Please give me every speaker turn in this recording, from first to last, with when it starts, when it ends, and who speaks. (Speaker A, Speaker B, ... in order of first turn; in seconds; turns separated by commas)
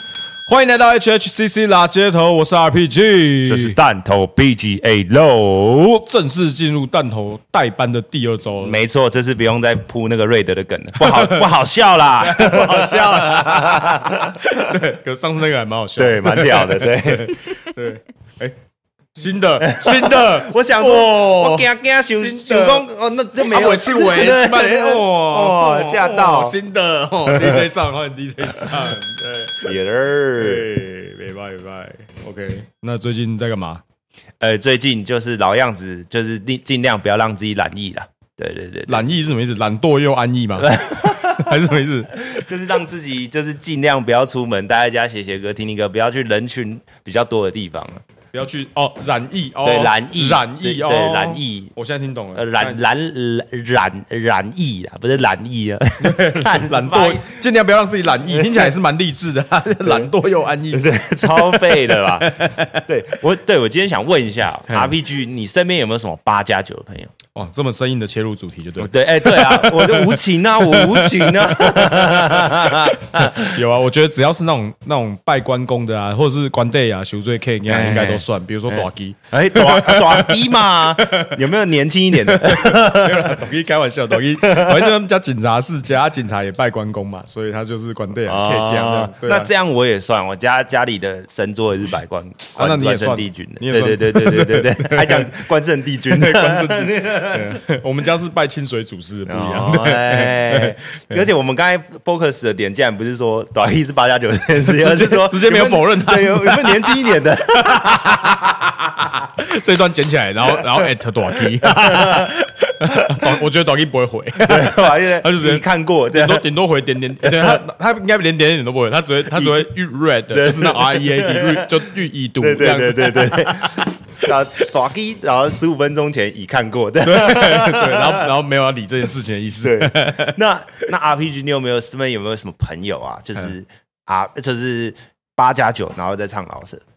Speaker A: 0.5-3.8, Speaker B: 3.4-6.0, Speaker A: 6.0-8.8, Speaker B: 8.6-14.5, Speaker A: 11.0-11.5, Speaker A: 12.2-18.6, Speaker B: 16.0-17.4, Speaker A: 19.1-22.9, Speaker B: 19.6-26.5, Speaker A: 23.4-29.7, Speaker B: 27.3-27.6, Speaker B: 29.6-30.6, Speaker A: 30.4-33.8, Speaker B: 34.4-39.1, Speaker A: 38.9-42.2, Speaker B: 40.6-41.5, Speaker B: 42.1-48.0, Speaker A: 48.3-52.8, Speaker B: 49.6-51.7, Speaker B: 52.3-57.3, Speaker A: 56.0-62.8, Speaker B: 58.3-58.7, Speaker B: 59.8-60.1, Speaker B: 60.7-67.1, Speaker A: 67.3-72.9, Speaker B: 68.8-73.6, Speaker A: 73.5-80.4, Speaker B: 77.7-83.5, Speaker A: 81.0-81.4, Speaker A: 82.2-89.5, Speaker B: 84.4-84.9, Speaker B: 88.3-97.6, Speaker A: 92.6-95.4, Speaker A: 96.1-101.2, Speaker B: 99.3-108.3, Speaker A: 104.7-107.0, Speaker A: 107.6-124.2, Speaker B: 111.6-112.3, Speaker B: 113.1-113.4, Speaker B: 114.4-116.5, Speaker B: 117.2-117.6, Speaker B: 119.3-119.7, Speaker B: 120.3-121.8, Speaker B: 122.4-128.2, Speaker A: 127.0-130.4, Speaker B: 129.6-136.8